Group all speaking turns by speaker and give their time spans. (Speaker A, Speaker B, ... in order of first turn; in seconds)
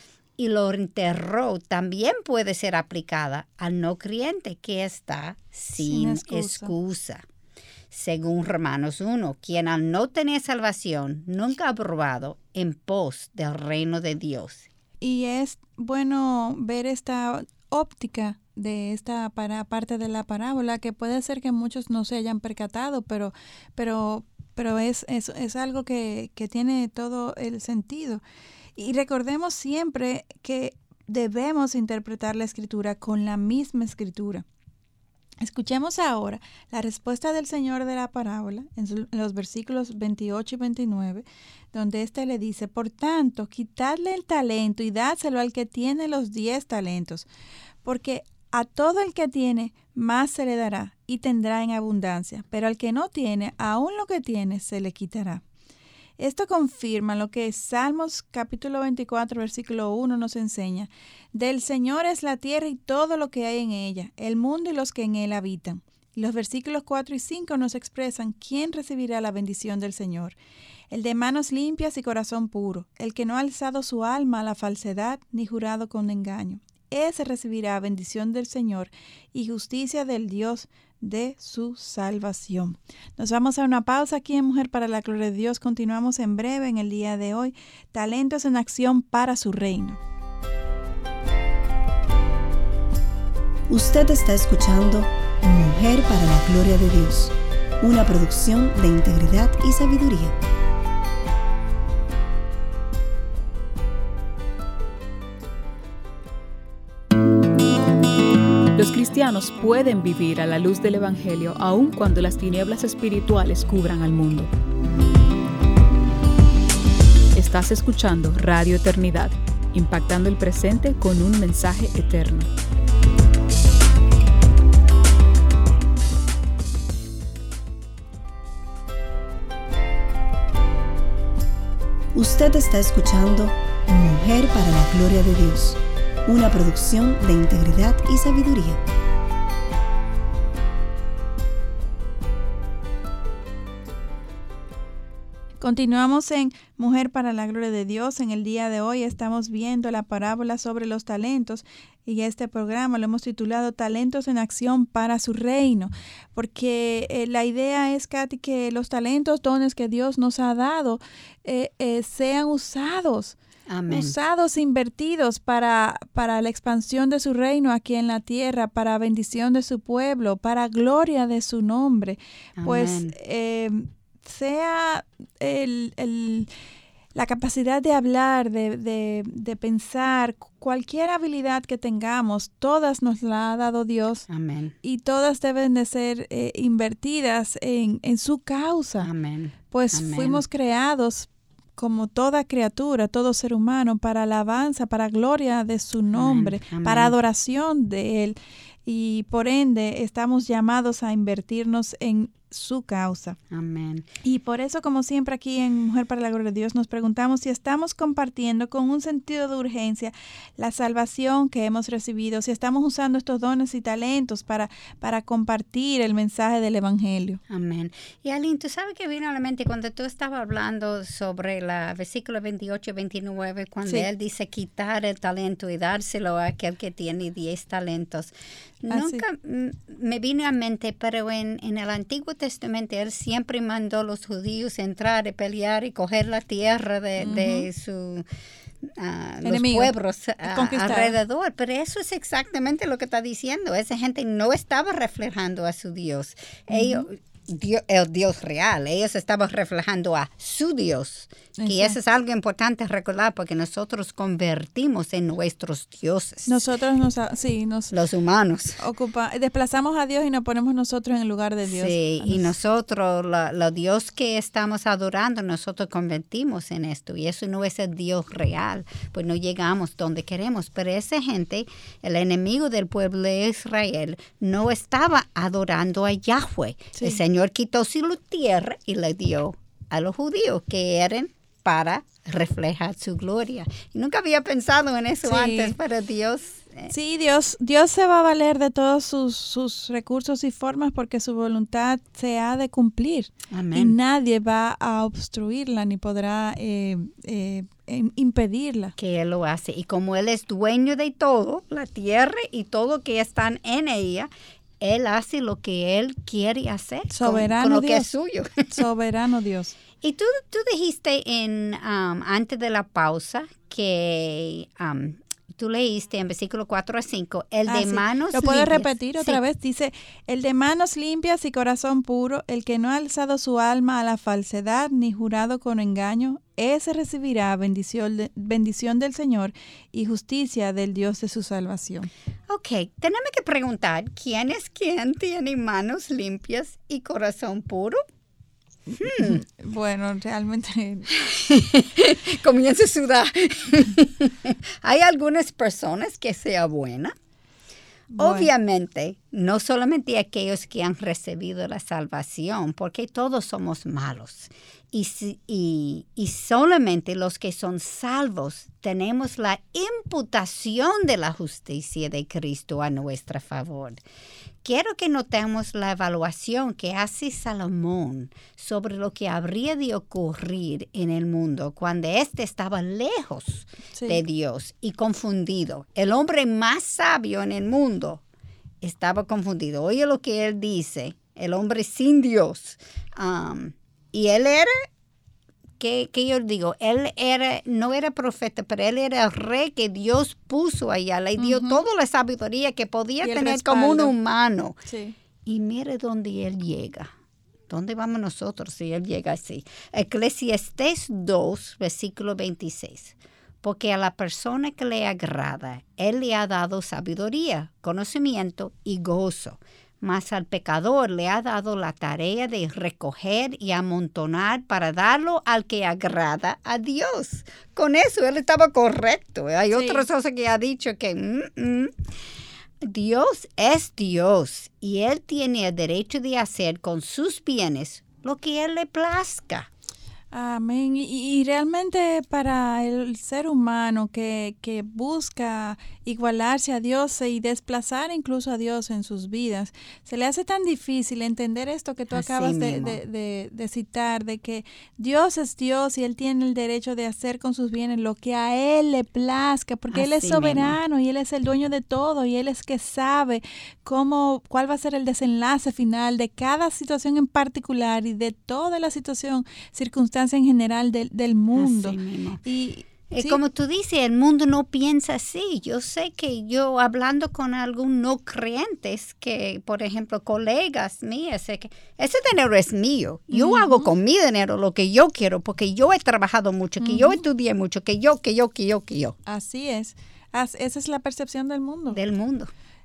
Speaker A: 0.4-7.2, 7.9-14.7, 163.7-164.1, 172.6-173.1, 184.3-184.8, 189.0-190.4, 196.1-197.1, 203.5-204.1, 217.5-238.3, 238.8-256.6, 257.9-258.8, 261.7-286.9, 293.5-294.0, 299.0-304.3, 304.8-308.8, 310.0-319.4, 332.5-338.0, 339.0-339.4, 341.1-347.1, 348.2-364.0, 364.6-378.2, 378.8-384.9, 385.8-394.8, 395.5-397.1, 397.7-421.9, 422.8-429.7, 442.1-443.0, 449.9-450.8, 461.6-462.4, 463.1-479.2, 481.9-482.5
Speaker B: 5.8-6.7, 15.0-28.2, 28.8-34.5, 35.4-47.3, 47.8-55.4, 56.2-70.4, 70.9-90.0, 145.6-163.4, 163.9-176.5, 177.2-184.3, 184.8-189.1, 189.7-203.4, 204.2-217.4, 228.9-229.2, 237.2-237.7, 239.4-239.9, 240.4-241.2, 246.7-247.1, 251.6-252.0, 256.5-257.9, 258.8-262.5, 285.2-285.8, 286.9-298.9, 307.1-308.1, 308.7-309.8, 317.7-332.1, 338.9-341.1, 348.1-348.5, 373.9-374.2, 391.4-391.8, 393.2-394.1, 394.9-395.1, 419.7-420.1, 430.3-463.4, 473.3-473.9, 476.8-477.2, 479.3-482.0
Speaker C: 93.7-100.4, 132.1-138.8
Speaker D: 108.8-114.5, 117.3-122.5